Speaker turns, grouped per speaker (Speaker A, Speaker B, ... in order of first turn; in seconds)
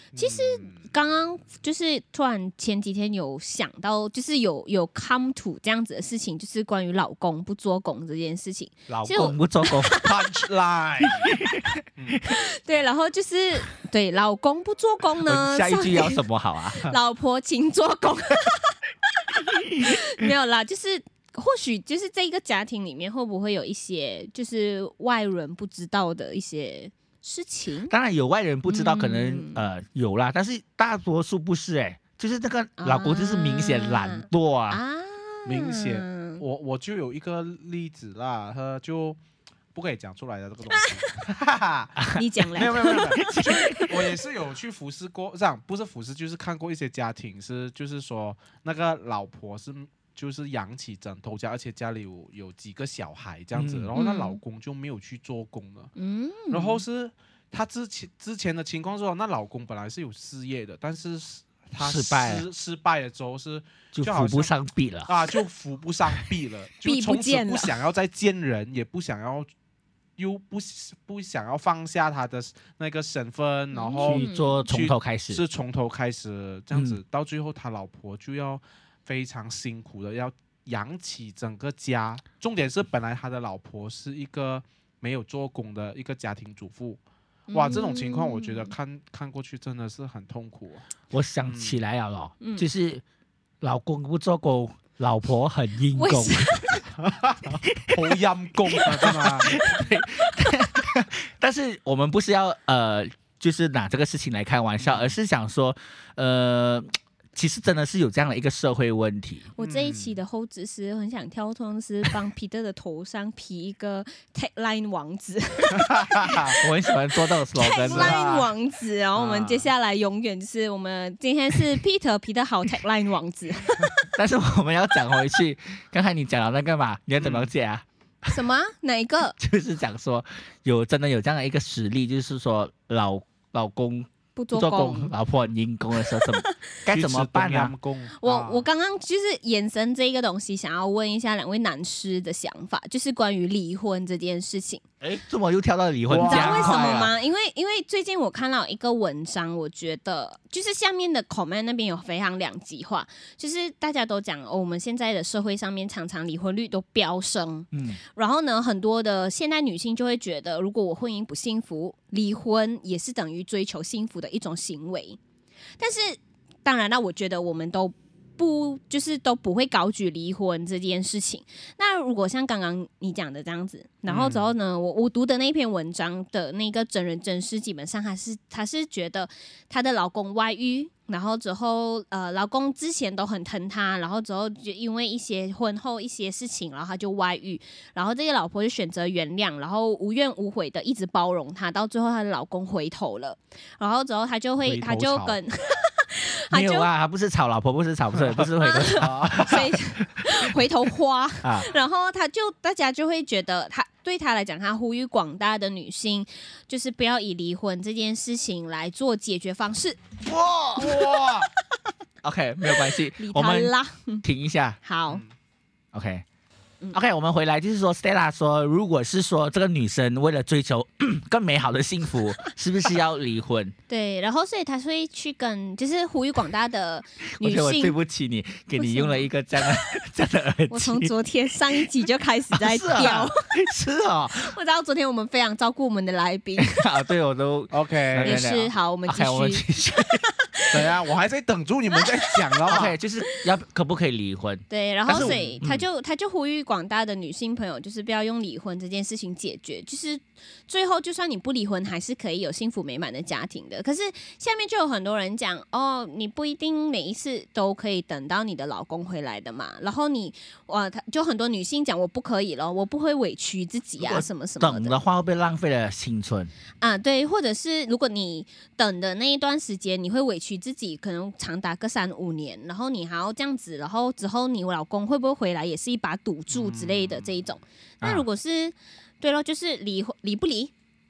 Speaker A: 0.1-0.9, 10.0-11.4, 12.0-12.2, 35.5-39.2, 39.7-55.9, 56.5-64.5, 65.1-69.5, 70.2-87.0, 87.5-90.9, 91.5-91.8, 97.0-99.6, 104.8-105.2, 109.6-110.2, 115.9-116.4, 117.9-118.5, 119.2-119.7, 127.2-127.5, 136.9-138.7, 146.1-147.1, 174.1-174.5, 194.6-195.4, 198.2-199.7, 210.8-211.5, 237.7-238.4, 240.7-242.9, 245.1-245.6, 276.5-277.4
Speaker B: 0.2-10.2, 12.3-16.2, 16.8-27.9, 28.7-29.6, 32.8-36.4, 40.7-41.0, 42.1-44.0, 54.0-54.4, 56.0-56.8, 66.8-67.8, 73.7-74.6, 87.5-88.7, 92.4-92.7, 96.0-96.9, 109.6-116.6, 117.5-124.0, 128.3-129.4, 134.4-135.1, 138.2-144.8, 146.2-165.2, 165.8-196.9, 198.6-210.0, 210.8-211.3, 212.7-214.2, 214.8-215.2, 223.9-228.0, 228.8-229.7, 230.7-233.4, 234.4-236.8, 238.2-240.8, 241.9-243.4, 244.7-265.0, 266.8-280.7
Speaker C: 8.9-10.0, 11.2-12.3, 15.2-17.0, 19.5-20.0, 27.9-34.8, 42.9-43.8, 53.5-53.9, 61.8-62.5, 63.9-65.1, 74.0-75.4, 76.7-77.0, 91.1-93.0, 93.6-96.8, 97.6-98.0, 98.7-109.5, 116.6-118.2, 124.1-128.3, 129.4-137.7, 145.0-147.1, 157.7-158.0, 196.5-200.5, 201.4-201.7, 210.3-211.1, 212.2-214.8, 215.9-216.2, 216.9-223.8, 227.4-231.1, 232.5-234.6, 236.6-240.2, 242.7-245.8, 264.0-266.5